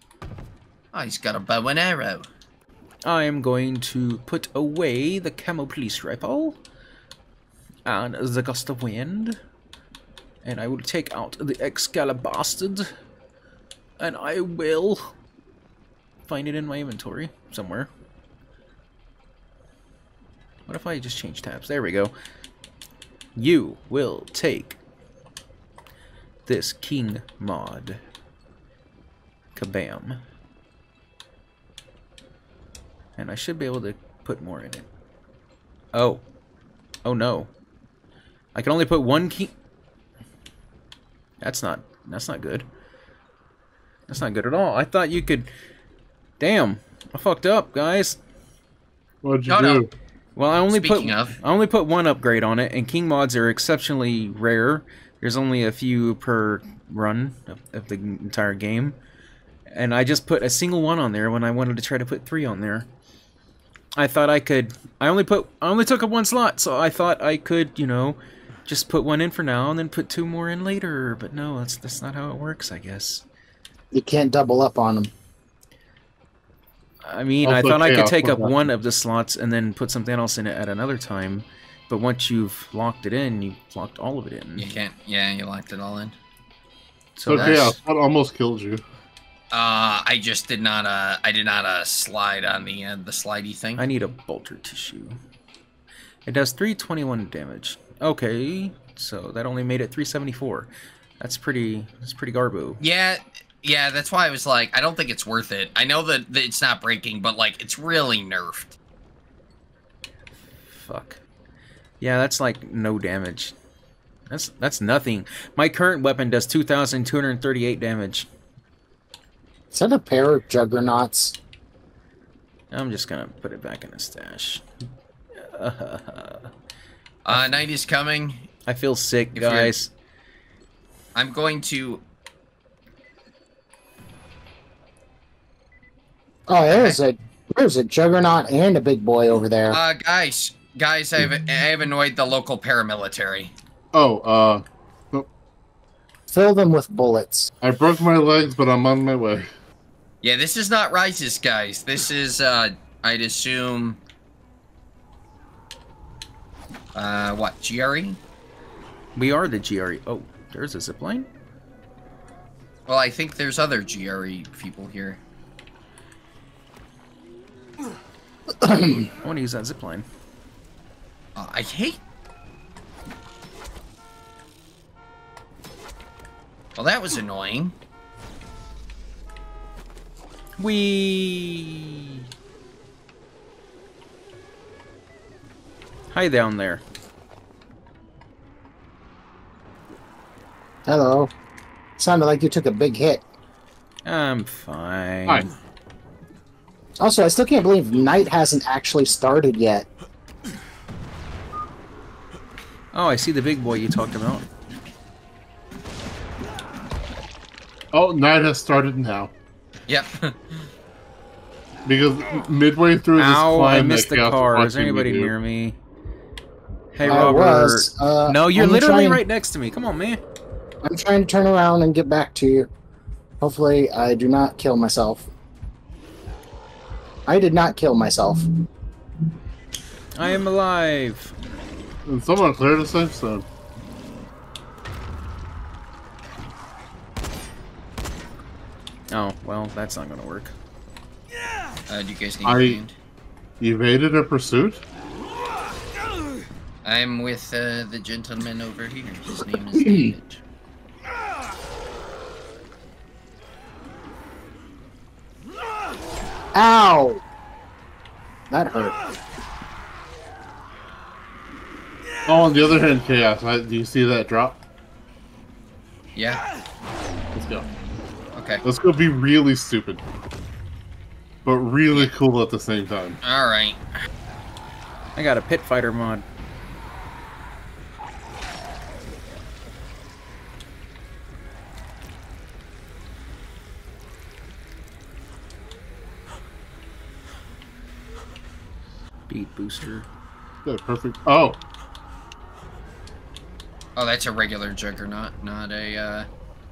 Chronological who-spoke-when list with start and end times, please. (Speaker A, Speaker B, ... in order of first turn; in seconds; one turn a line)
Speaker A: 0.9-2.3
Speaker B: 3.0-6.6
Speaker B: 7.9-9.4
Speaker B: 10.4-12.9
Speaker B: 14.0-15.2
Speaker B: 16.3-17.9
Speaker B: 20.7-22.1
Speaker B: 23.4-24.8
Speaker B: 26.5-28.0
Speaker B: 29.6-30.2
Speaker B: 33.2-34.9
Speaker B: 35.9-36.2
Speaker B: 37.0-37.5
Speaker B: 38.5-39.5
Speaker B: 41.4-42.7
Speaker B: 44.1-45.5
Speaker B: 46.4-48.2
Speaker C: 49.2-49.9
Speaker A: 49.5-49.8
Speaker B: 50.4-59.0
Speaker A: 50.7-51.3
Speaker B: 59.7-62.9
Speaker B: 64.0-73.2
Speaker D: 73.9-75.1
Speaker B: 77.0-84.7
Speaker C: 77.4-78.6
Speaker A: 84.6-86.2
Speaker B: 87.2-87.8
Speaker C: 87.2-88.8
Speaker A: 87.3-87.7
Speaker A: 89.5-93.8
Speaker B: 93.8-95.2
Speaker B: 96.3-100.7
Speaker B: 101.2-102.8
Speaker A: 102.8-108.8
Speaker B: 110.7-111.2
Speaker B: 112.0-113.5
Speaker B: 114.3-118.3
Speaker D: 119.7-121.4
Speaker B: 122.7-124.6
Speaker B: 125.3-126.5
Speaker A: 127.2-128.5
Speaker B: 128.7-129.9
Speaker A: 129.3-129.7
Speaker A: 131.2-132.0
Speaker D: 136.5-139.8
Speaker A: 136.7-137.0
Speaker A: 139.7-143.5
Speaker C: 143.9-145.3
Speaker D: 146.3-147.5
Speaker C: 147.6-149.5
Speaker A: 150.2-154.0
Speaker A: 156.9-158.2
Speaker B: 159.2-161.3
Speaker A: 162.9-165.2
Speaker D: 168.6-169.1
Speaker B: 169.0-170.1
Speaker A: 171.3-172.0
Speaker A: 176.8-177.7
Speaker B: 180.6-182.2
Speaker B: 186.1-186.8
Speaker D: 190.9-191.3
Speaker D: 192.0-193.2
Speaker B: 194.1-195.5
Speaker D: 197.0-199.9
Speaker B: 202.9-204.5
Speaker C: 207.9-209.3
Speaker A: 209.9-210.4
Speaker C: 211.8-215.3
Speaker B: 213.2-215.8
Speaker B: 216.9-220.2
Speaker D: 217.0-219.2
Speaker D: 220.8-222.7
Speaker D: 223.4-225.3
Speaker D: 227.3-228.4
Speaker B: 230.1-231.3
Speaker C: 232.1-233.5
Speaker B: 239.1-240.5
Speaker A: 241.9-242.9
Speaker C: 242.4-242.8
Speaker C: 243.6-244.8
Speaker A: 246.8-250.4
Speaker D: 256.5-257.2
Speaker D: 258.5-259.0
Speaker C: 262.2-264.6
Speaker A: 266.2-266.4
Speaker C: 267.3-267.7
Speaker A: 268.4-268.6
Speaker C: 268.6-270.0
Speaker C: 271.4-273.2
Speaker A: 273.2-273.8
Speaker B: 275.2-276.2
Speaker B: 289.3-290.1
Speaker C: 290.6-291.6
Speaker A: 294.0-296.3